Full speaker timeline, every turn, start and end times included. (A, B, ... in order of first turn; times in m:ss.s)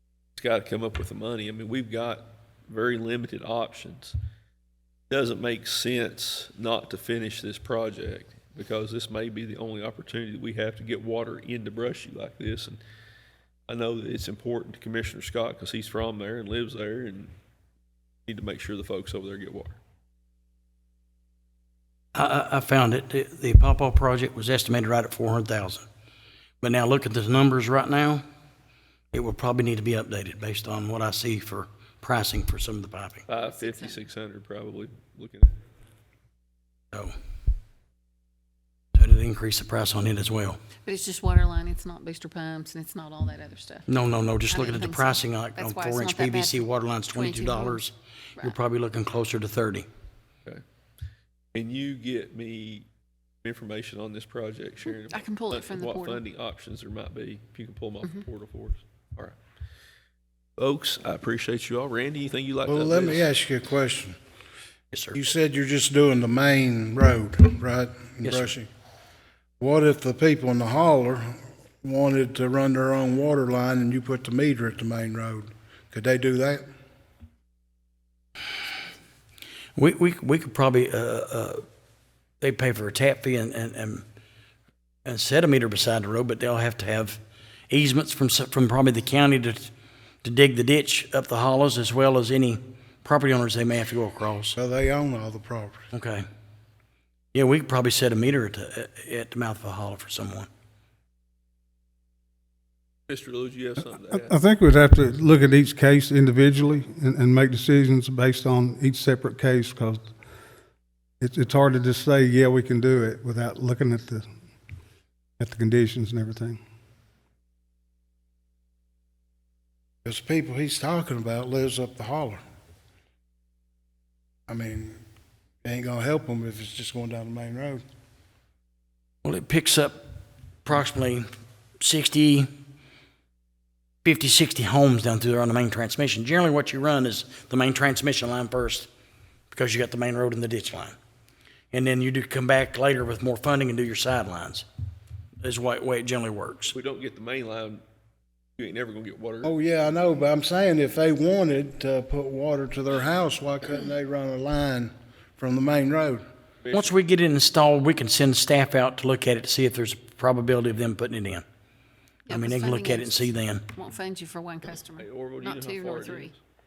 0:00.4-0:04.2 A
0:05.1-0:12.8 A
0:13.7-0:17.3 A
0:18.3-0:19.8 A
0:22.2-0:25.8 B
0:26.6-0:28.2 B
0:29.1-0:33.3 B
0:33.3-0:35.5 A
0:33.3-0:34.0 C
0:38.9-0:40.6 B
0:40.8-0:43.9 C
0:43.9-0:49.9 B
0:44.5-0:47.8 C
0:51.5-0:52.9 A
0:53.4-0:59.4 A
0:55.1-0:56.2 C
1:00.6-1:03.3 A
1:02.7-1:04.2 D
1:04.9-1:05.2 B
1:05.1-1:08.7 D
1:08.2-1:08.5 B
1:09.6-1:16.6 D
1:19.8-1:21.6 B
1:22.4-1:24.0 B
1:25.1-1:29.7 B
1:30.2-1:34.6 B
1:34.6-1:35.9 D
1:35.9-1:36.2 B
1:37.3-1:40.5 B
1:43.1-1:44.4 A
1:44.1-1:50.1 E
1:51.2-1:54.3 E
1:55.4-1:56.6 E
2:00.0-2:02.4 D
2:04.5-2:05.0 D
2:05.6-2:07.8 D
2:09.2-2:10.0 B
2:10.6-2:11.3 B
2:11.8-2:12.5 B
2:14.0-2:18.9 B
2:19.5-2:21.0 B
2:21.7-2:24.7 B
2:25.4-2:26.8 B
2:26.7-2:27.8 A
2:28.6-2:29.5 A
2:29.4-2:36.2 D
2:36.6-2:37.0 A
2:36.7-2:41.4 B
2:42.3-2:46.4 C
2:42.3-2:43.6 B
2:45.0-2:46.4 A